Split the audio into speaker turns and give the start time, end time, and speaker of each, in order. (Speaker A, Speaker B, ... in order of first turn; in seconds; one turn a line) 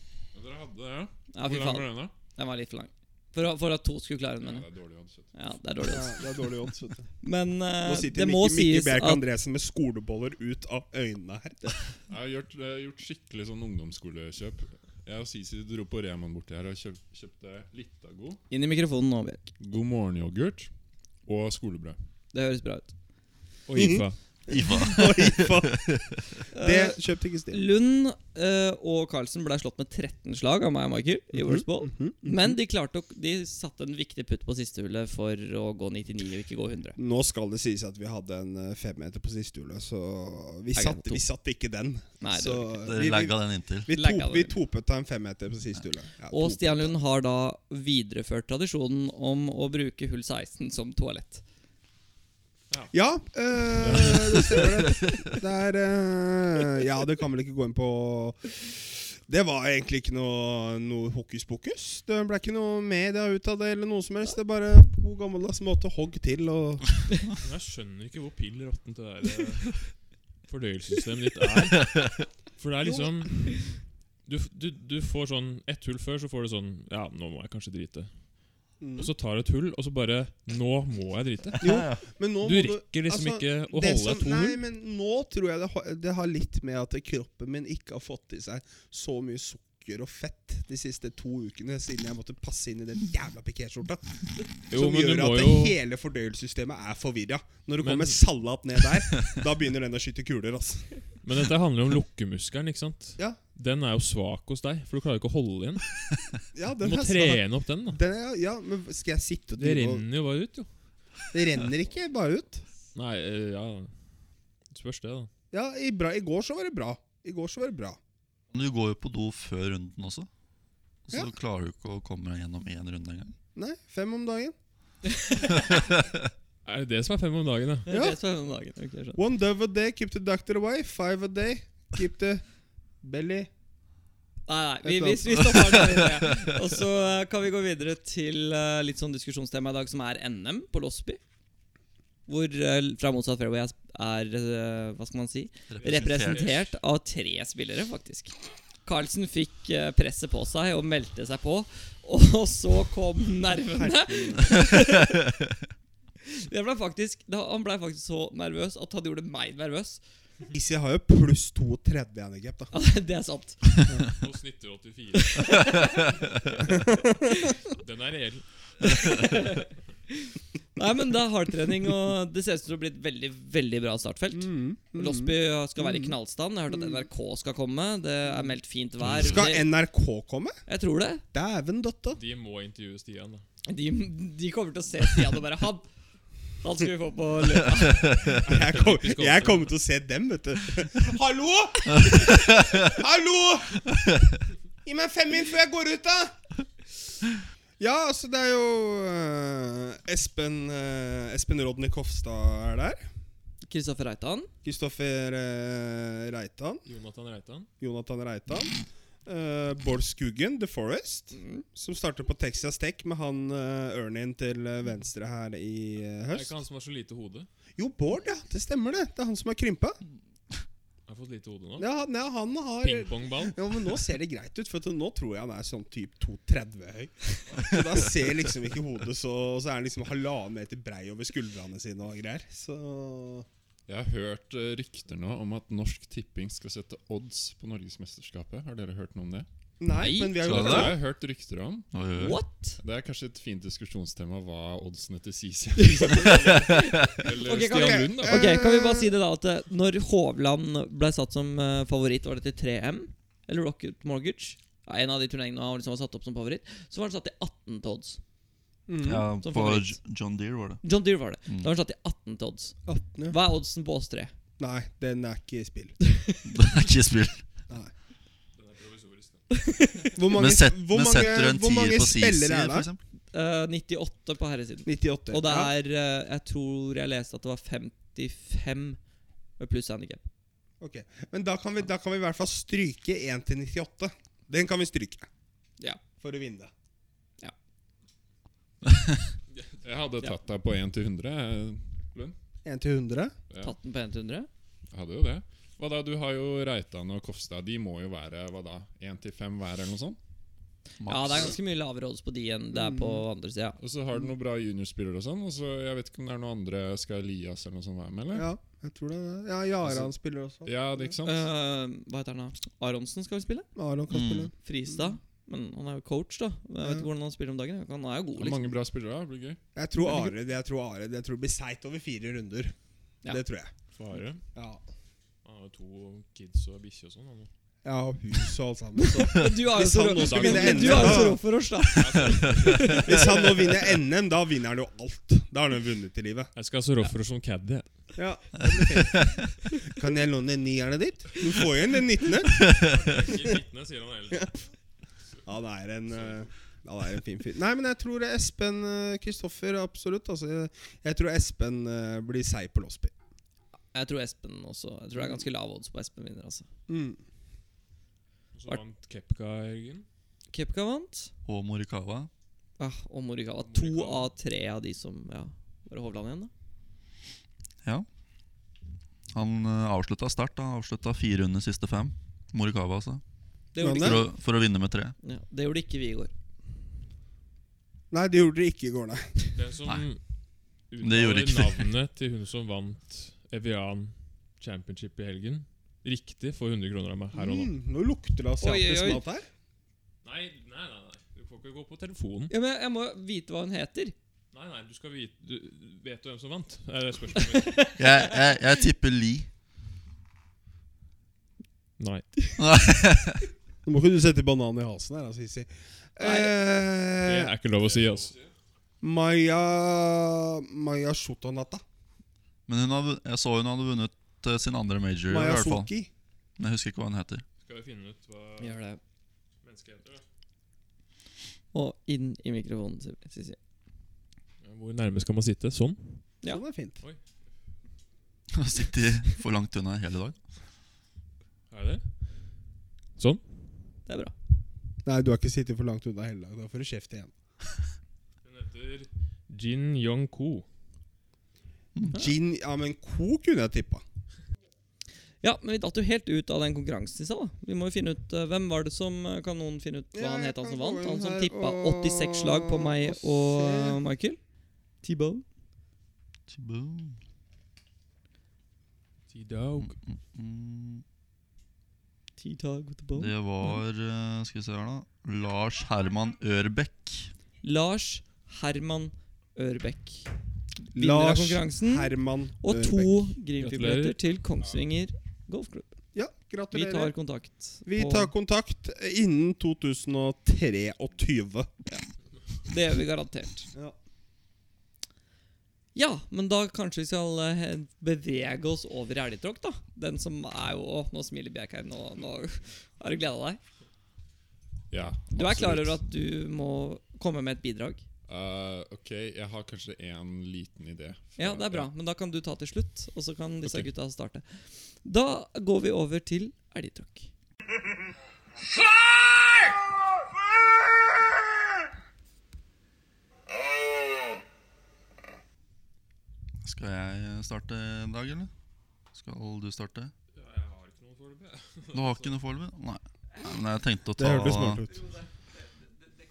Speaker A: 0.3-2.1
Speaker B: 1.3-4.7
Speaker A: 4.4-5.3
Speaker B: 5.3-6.2
Speaker C: 5.8-7.1
Speaker B: 7.2-9.2
Speaker C: 7.8-11.9
Speaker A: 12.1-18.4
Speaker B: 18.5-19.5
Speaker A: 19.6-20.7
Speaker A: 21.2-21.9
Speaker B: 22.3-22.9
Speaker D: 23.7-24.2
Speaker C: 23.8-27.6
Speaker E: 24.5-26.0
Speaker B: 26.5-27.0
Speaker B: 27.5-37.0
Speaker C: 31.3-32.5
Speaker C: 37.0-46.9
Speaker B: 40.7-41.2
Speaker B: 42.2-42.8
Speaker E: 42.8-43.9
Speaker B: 43.9-44.5
Speaker B: 46.3-51.4
Speaker C: 52.9-67.1
Speaker D: 53.8-54.7
Speaker D: 67.4-69.9
Speaker D: 70.5-78.1
Speaker C: 78.8-79.1
Speaker D: 79.0-84.6
Speaker C: 81.6-94.0
Speaker E: 81.6-82.0
Speaker C: 94.7-101.0
Speaker D: 94.7-95.8
Speaker D: 97.8-98.2
Speaker D: 101.2-105.8
Speaker C: 106.5-110.0
Speaker D: 106.8-108.0
Speaker D: 109.6-110.7
Speaker C: 111.3-112.7
Speaker D: 112.9-113.9
Speaker D: 114.7-115.3
Speaker C: 115.5-118.0
Speaker E: 118.5-120.3
Speaker E: 121.1-123.3
Speaker C: 123.5-124.5
Speaker B: 125.1-125.5
Speaker D: 126.6-127.9
Speaker B: 127.8-129.2
Speaker C: 127.9-128.2
Speaker C: 129.2-132.4
Speaker C: 133.0-133.5
Speaker B: 134.5-141.2
Speaker C: 134.8-135.8
Speaker B: 142.3-148.3
Speaker E: 145.7-146.6
Speaker D: 145.8-146.7
Speaker B: 148.8-155.2
Speaker C: 153.8-154.7
Speaker B: 156.3-160.0
Speaker C: 160.5-162.7
Speaker B: 162.7-163.8
Speaker D: 164.1-165.9
Speaker B: 165.2-166.1
Speaker D: 166.5-166.8
Speaker D: 167.6-169.4
Speaker B: 168.8-179.7
Speaker C: 174.3-176.1
Speaker C: 176.7-177.0
Speaker C: 179.1-180.6
Speaker B: 180.7-181.2
Speaker C: 181.3-182.2
Speaker D: 182.1-183.4
Speaker B: 183.7-185.9
Speaker B: 186.6-188.2
Speaker C: 188.4-194.1
Speaker D: 188.4-189.7
Speaker C: 194.8-196.4
Speaker C: 197.8-203.0
Speaker B: 203.6-204.5
Speaker C: 204.6-206.8
Speaker D: 206.8-207.7
Speaker C: 207.8-216.5
Speaker B: 211.3-211.6
Speaker D: 216.3-217.5
Speaker C: 217.8-220.0
Speaker D: 221.1-221.9
Speaker C: 221.8-233.4
Speaker D: 222.8-223.6
Speaker A: 233.9-239.5
Speaker C: 239.8-241.0
Speaker B: 240.0-240.4
Speaker A: 240.4-241.9
Speaker E: 240.4-240.9
Speaker E: 241.9-242.4
Speaker B: 242.2-242.8
Speaker A: 242.8-248.6
Speaker B: 245.8-258.2
Speaker C: 247.7-249.1
Speaker C: 258.9-259.3
Speaker E: 259.0-260.8
Speaker B: 259.4-260.0
Speaker B: 260.8-264.3
Speaker C: 262.9-263.4
Speaker C: 264.6-265.9
Speaker E: 266.4-267.4
Speaker D: 268.6-269.4
Speaker B: 269.5-270.1
Speaker C: 270.1-272.9
Speaker E: 270.3-273.0
Speaker B: 273.3-279.0
Speaker C: 274.8-275.7
Speaker B: 279.6-280.2
Speaker C: 280.8-285.2
Speaker C: 286.2-286.7
Speaker A: 289.8-292.3
Speaker C: 292.6-293.3
Speaker A: 293.5-293.7
Speaker B: 293.6-294.5
Speaker A: 294.9-300.2
Speaker E: 301.0-301.5
Speaker B: 301.1-303.8
Speaker C: 302.7-303.2
Speaker A: 303.8-308.5
Speaker C: 308.3-311.1
Speaker A: 309.8-310.1
Speaker A: 310.6-311.5
Speaker B: 311.2-313.7
Speaker C: 313.8-315.1
Speaker E: 314.1-314.5
Speaker B: 314.6-318.7
Speaker C: 316.8-317.1
Speaker A: 318.4-319.6
Speaker C: 319.7-322.7
Speaker B: 320.0-320.3
Speaker C: 323.3-323.7
Speaker D: 324.0-324.4
Speaker C: 324.5-324.8
Speaker D: 325.4-327.5
Speaker C: 327.8-331.4
Speaker B: 328.9-333.2
Speaker A: 330.3-331.2
Speaker D: 330.4-331.3
Speaker D: 331.9-333.3
Speaker C: 332.8-336.5
Speaker D: 336.5-337.9
Speaker C: 338.1-342.7
Speaker E: 338.7-339.3
Speaker E: 342.6-342.9
Speaker D: 342.6-344.7
Speaker C: 345.4-353.1
Speaker D: 346.1-346.4
Speaker B: 353.9-356.7
Speaker C: 356.9-357.2
Speaker D: 358.5-360.1
Speaker B: 360.5-361.3
Speaker E: 361.4-362.3
Speaker B: 362.8-366.5
Speaker D: 363.6-364.3
Speaker E: 369.3-373.2
Speaker B: 373.7-374.3
Speaker C: 373.8-374.2
Speaker E: 373.9-375.1
Speaker B: 375.2-376.3
Speaker C: 378.1-379.4
Speaker D: 379.5-380.2
Speaker D: 380.9-387.7
Speaker E: 381.0-381.9
Speaker C: 387.3-389.5
Speaker B: 388.6-389.2
Speaker D: 390.2-392.5
Speaker B: 392.5-394.1
Speaker D: 394.5-397.9
Speaker B: 397.5-398.3
Speaker E: 398.0-399.5
Speaker D: 402.0-402.3
Speaker E: 402.6-403.4
Speaker C: 403.8-407.5
Speaker B: 406.2-406.5
Speaker D: 407.2-408.3
Speaker A: 407.9-408.5
Speaker C: 409.0-411.8
Speaker E: 412.7-415.9
Speaker C: 415.3-416.1
Speaker E: 416.6-417.4
Speaker D: 417.6-418.8
Speaker B: 418.6-419.0
Speaker D: 419.6-420.2
Speaker B: 421.7-423.6
Speaker D: 424.6-426.2
Speaker C: 426.5-427.0
Speaker E: 428.5-430.4
Speaker D: 431.7-432.1
Speaker D: 433.2-433.4
Speaker B: 434.1-434.3
Speaker C: 435.0-437.3
Speaker D: 438.4-440.6
Speaker C: 442.1-444.0
Speaker B: 445.4-454.4
Speaker C: 450.1-454.0
Speaker B: 455.0-455.4
Speaker E: 456.5-457.2
Speaker D: 459.3-459.9
Speaker E: 459.8-461.0
Speaker B: 462.4-463.8
Speaker E: 463.2-467.3
Speaker B: 467.6-470.3
Speaker C: 470.9-473.3
Speaker B: 470.9-475.9
Speaker D: 473.6-474.2
Speaker C: 476.1-477.1
Speaker B: 476.7-478.3
Speaker C: 477.9-481.7
Speaker B: 482.7-483.7
Speaker B: 485.9-493.6
Speaker A: 494.9-496.0
Speaker B: 495.3-498.0
Speaker A: 498.3-501.9
Speaker B: 501.4-507.3
Speaker A: 503.6-503.9
Speaker E: 516.6-518.5
Speaker E: 519.1-520.1
Speaker D: 520.3-522.3
Speaker E: 521.9-524.8
Speaker C: 524.2-525.0